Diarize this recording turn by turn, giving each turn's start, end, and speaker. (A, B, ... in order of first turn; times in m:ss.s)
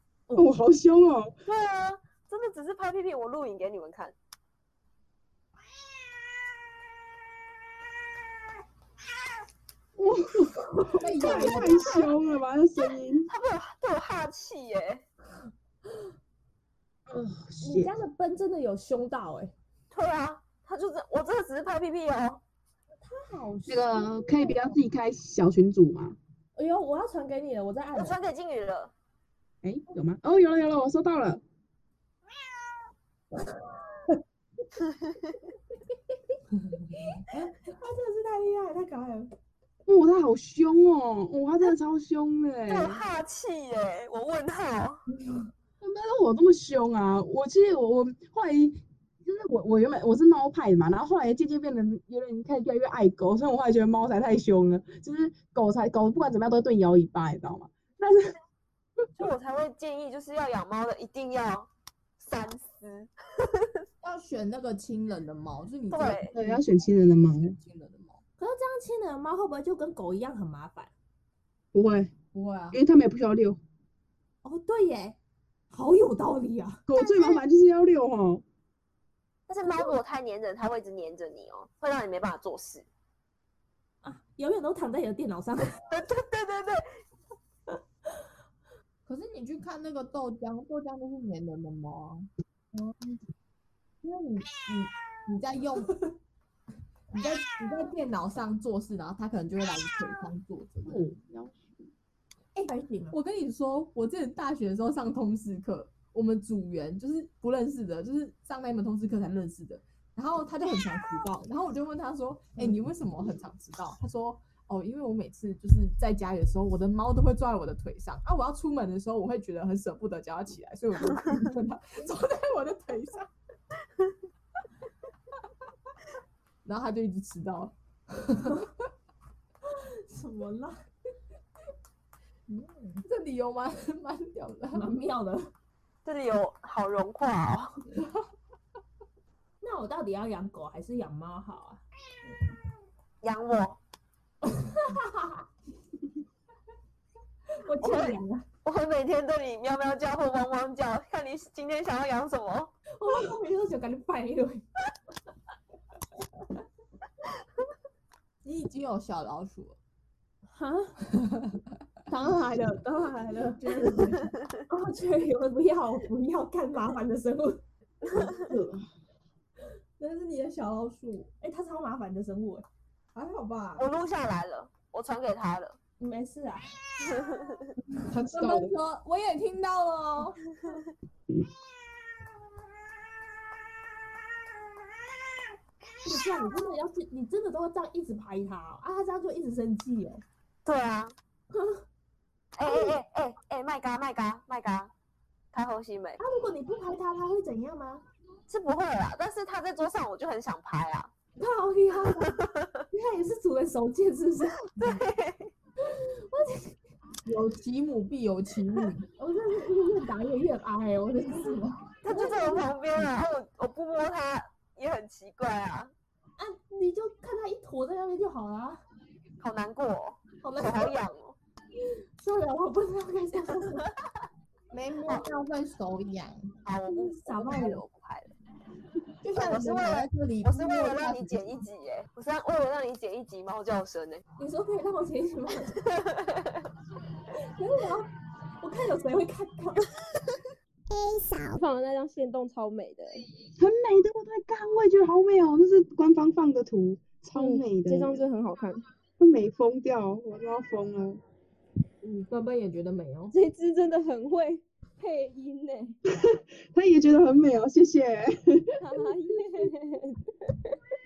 0:00.3-0:00.5 A
0:00.4-0:01.3 B
0:01.5-0:04.2 C
0:10.0-0:13.3 B
0:10.7-0:11.9 A
0:11.0-0:12.1 D
0:12.9-0:15.0 C
0:17.1-0:17.9 B
0:17.6-0:19.5 A
0:19.9-0:22.4 C
0:23.0-0:24.8 A
0:23.7-0:26.2 B
0:26.6-0:28.2 A
0:28.0-0:28.9 C
0:29.6-0:31.4 B
0:33.5-0:34.2 A
0:34.8-0:35.3 C
0:36.8-0:39.3 A
0:39.9-0:43.0 B
0:42.7-0:45.0 C
0:45.1-0:45.5 A
0:45.8-0:58.3 B
0:59.2-1:01.7 C
1:02.2-1:03.7 C
1:04.0-1:08.2 D
1:05.9-1:06.4 C
1:06.3-1:07.6 B
1:08.4-1:10.9 A
1:11.7-1:12.1 B
1:12.3-1:12.8 D
1:12.7-1:13.6 B
1:14.4-1:15.2 A
1:15.7-1:17.4 A
1:16.9-1:18.4 B
1:19.5-1:22.9 C
1:24.0-1:25.6 A
1:25.9-1:26.8 C
1:29.1-1:32.3 D
1:32.7-1:33.2 A
1:34.0-1:36.1 D
1:37.1-1:41.0 D
1:40.9-1:41.9 B
1:42.6-1:43.2 A
1:43.1-2:03.3 D
2:06.6-2:08.7 D
2:09.7-2:10.8 A
2:12.5-2:13.0 A
2:13.0-2:14.9 D
2:14.7-2:15.5 A
2:16.0-2:17.7 C
2:19.6-2:21.8 A
2:23.2-2:23.8 C
2:24.4-2:25.4 A
2:27.6-2:28.5 A
2:27.8-2:32.7 C
2:33.0-2:34.6 A
2:38.4-2:39.8 D
2:40.5-2:41.1 A
2:42.1-2:44.2 A
2:43.6-2:44.3 D
2:44.7-2:47.6 A
2:48.1-2:48.9 B
2:50.0-2:51.3 D
2:51.4-2:52.6 A
2:53.1-2:53.9 D
2:53.8-2:55.8 C
2:56.0-2:56.8 A
2:57.0-2:57.7 C
2:58.0-3:00.4 D
2:58.3-2:58.7 B
3:06.0-3:10.2 A
3:10.7-3:11.2 C
3:11.5-3:11.8 A
3:12.6-3:14.9 C
3:12.6-3:13.0 A
3:15.5-3:16.2 C
3:16.2-3:18.0 A
3:18.5-3:21.1 C
3:21.4-3:22.4 A
3:22.0-3:22.8 C
3:22.9-3:25.0 A
3:24.6-3:25.5 C
3:25.8-3:26.8 A
3:27.2-3:29.1 D
3:29.2-3:32.6 A
3:32.0-3:35.9 C
3:36.4-3:38.8 A
3:39.4-3:41.4 C
3:40.4-3:40.9 A
3:42.2-3:43.9 A
3:44.7-3:46.5 D
3:46.6-3:48.3 C
3:46.9-3:47.8 A
3:49.2-3:51.6 D
3:49.4-3:54.2 C
3:54.4-3:55.8 A
3:55.8-3:56.6 C
3:57.5-3:59.9 A
4:00.9-4:03.2 E
4:03.6-4:08.2 B
4:07.4-4:08.8 E
4:09.2-4:11.2 B
4:12.3-4:13.4 D
4:13.3-4:16.0 E
4:16.2-4:18.6 B
4:19.0-4:20.1 E